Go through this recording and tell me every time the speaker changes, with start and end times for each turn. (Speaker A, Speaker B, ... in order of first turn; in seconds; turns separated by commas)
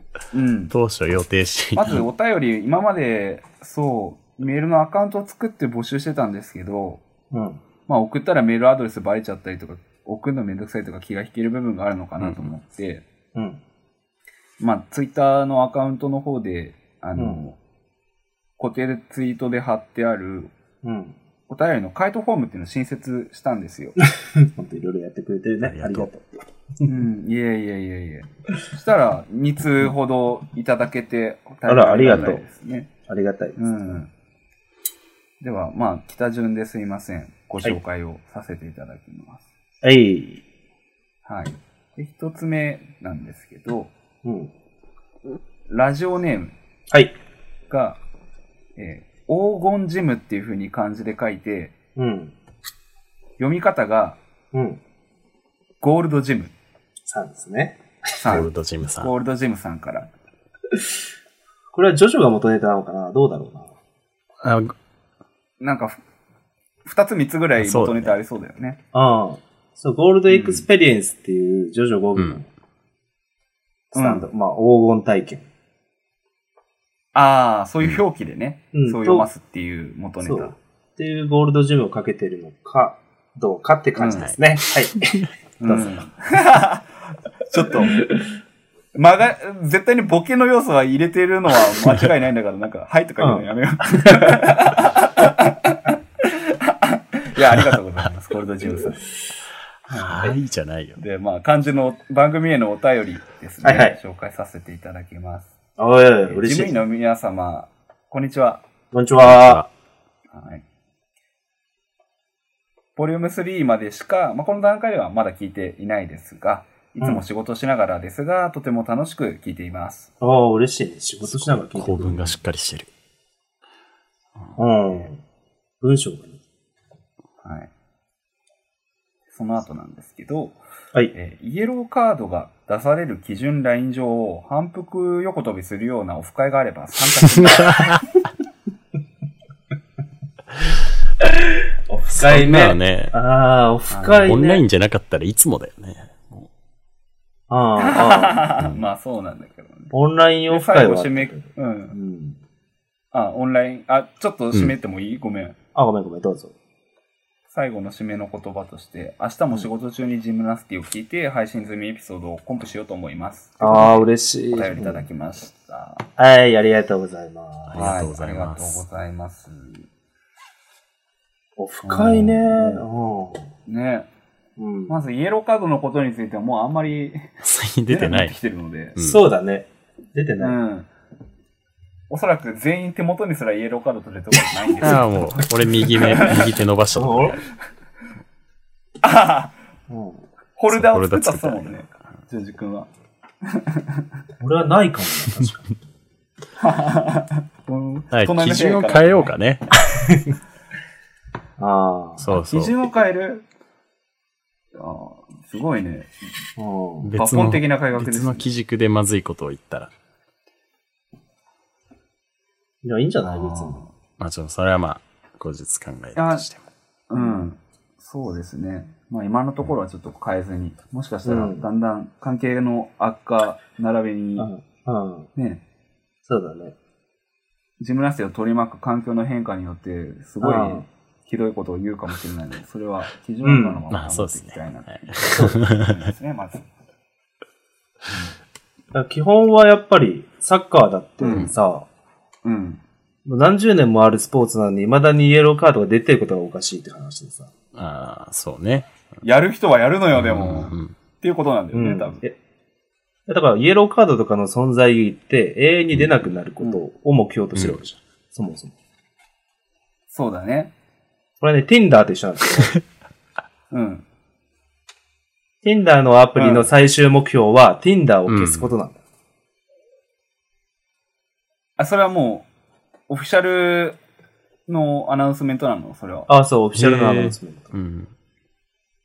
Speaker A: 0.3-0.7, Speaker B: 0.7-2.1, Speaker A: 1.7-7.0, Speaker C: 7.3-7.6, Speaker A: 7.9-13.0, Speaker B: 12.2-12.5, Speaker C: 13.3-13.6, Speaker A: 14.6-17.6, Speaker C: 17.1-17.4, Speaker A: 18.6-20.5, Speaker C: 20.8-21.1, Speaker A: 21.5-24.0, Speaker C: 24.1-27.0, Speaker B: 25.6-26.1, Speaker A: 26.9-32.9, Speaker C: 31.6-32.4, Speaker C: 33.1-34.0, Speaker A: 33.6-34.1, Speaker A: 35.4-39.4, Speaker C: 39.8-40.4, Speaker A: 41.2-43.9, Speaker C: 44.2-44.5, Speaker A: 45.7-46.5, Speaker C: 46.9-47.1, Speaker A: 47.7-48.0, Speaker A: 48.8-51.7, Speaker C: 52.0-52.3, Speaker A: 53.4-54.2, Speaker C: 54.5-54.8, Speaker A: 55.8-56.5, Speaker C: 57.1-58.4, Speaker A: 58.2-60.1, Speaker B: 58.3-59.1, Speaker C: 61.7-63.7, Speaker B: 64.4-64.7, Speaker A: 65.6-66.0, Speaker A: 66.8-68.8, Speaker B: 67.6-68.1, Speaker C: 68.9-72.5, Speaker A: 70.3-70.6, Speaker A: 73.9-74.3, Speaker C: 73.9-75.5, Speaker A: 77.1-80.5, Speaker C: 78.7-79.3, Speaker C: 80.2-86.0, Speaker A: 84.0-84.3, Speaker A: 85.6-88.0, Speaker C: 88.0-88.2, Speaker A: 88.9-99.0, Speaker C: 93.2-94.3, Speaker B: 99.9-101.0, Speaker A: 99.9-100.3, Speaker A: 101.0-105.5, Speaker C: 103.6-104.0, Speaker C: 105.8-106.8, Speaker A: 106.3-108.6, Speaker C: 108.9-109.6, Speaker B: 109.2-109.7, Speaker A: 110.3-110.6, Speaker A: 113.0-120.1, Speaker C: 120.2-122.3, Speaker B: 121.2-122.9, Speaker C: 124.5-125.2, Speaker C: 125.8-126.4, Speaker A: 127.4-127.7, Speaker A: 129.3-130.6, Speaker A: 131.1-138.0, Speaker B: 137.3-138.0, Speaker C: 141.9-144.6, Speaker B: 142.2-143.1, Speaker A: 143.9-144.5, Speaker B: 144.2-146.5, Speaker C: 147.5-148.4, Speaker A: 147.8-149.9, Speaker B: 148.6-148.8, Speaker C: 149.9-152.4, Speaker A: 150.5-151.9, Speaker A: 153.1-155.6, Speaker C: 155.7-156.5, Speaker A: 157.5-166.1, Speaker C: 163.6-165.1, Speaker C: 166.2-167.9, Speaker B: 167.7-168.8, Speaker A: 167.8-169.9, Speaker C: 171.6-173.5, Speaker A: 171.8-172.8, Speaker A: 173.7-174.1, Speaker C: 174.6-175.0, Speaker A: 174.9-177.3, Speaker B: 177.4-178.3, Speaker A: 177.9-178.9, Speaker B: 178.9-179.2, Speaker C: 179.0-180.6, Speaker A: 180.4-180.9, Speaker A: 182.1-185.1, Speaker B: 184.8-187.4, Speaker A: 186.0-186.4, Speaker C: 186.9-187.4, Speaker A: 189.0-189.5, Speaker C: 189.9-190.2, Speaker A: 190.6-192.9, Speaker B: 190.7-191.8, Speaker A: 193.4-194.0, Speaker C: 194.4-195.8, Speaker A: 196.6-199.3, Speaker B: 198.1-199.7, Speaker C: 201.6-202.3, Speaker B: 202.2-202.7, Speaker A: 202.3-203.4, Speaker A: 204.7-206.3, Speaker C: 206.6-207.1, Speaker B: 207.0-209.9, Speaker A: 207.2-208.5, Speaker C: 212.8-213.8, Speaker A: 213.2-213.9, Speaker B: 214.2-216.6, Speaker A: 216.2-216.4, Speaker A: 217.1-224.5, Speaker C: 217.1-217.5, Speaker C: 221.2-221.7, Speaker C: 224.4-225.3, Speaker A: 225.3-225.6, Speaker C: 226.2-226.8, Speaker A: 227.8-236.7, Speaker C: 230.4-230.9, Speaker C: 233.4-233.8, Speaker B: 233.9-235.9, Speaker C: 235.3-235.6, Speaker C: 238.9-241.9, Speaker A: 241.2-241.5, Speaker A: 242.4-242.8, Speaker C: 243.2-247.5, Speaker B: 247.7-248.9, Speaker A: 249.2-252.2, Speaker B: 250.1-250.9, Speaker C: 251.7-252.4, Speaker C: 253.3-258.7, Speaker B: 257.5-257.8, Speaker A: 260.1-260.7, Speaker C: 261.4-262.8, Speaker A: 263.7-264.0, Speaker C: 265.6-269.0, Speaker A: 266.4-266.6, Speaker B: 268.3-268.7, Speaker A: 271.8-272.5, Speaker A: 273.1-274.0, Speaker A: 274.7-276.3, Speaker C: 276.3-277.7, Speaker B: 276.8-278.1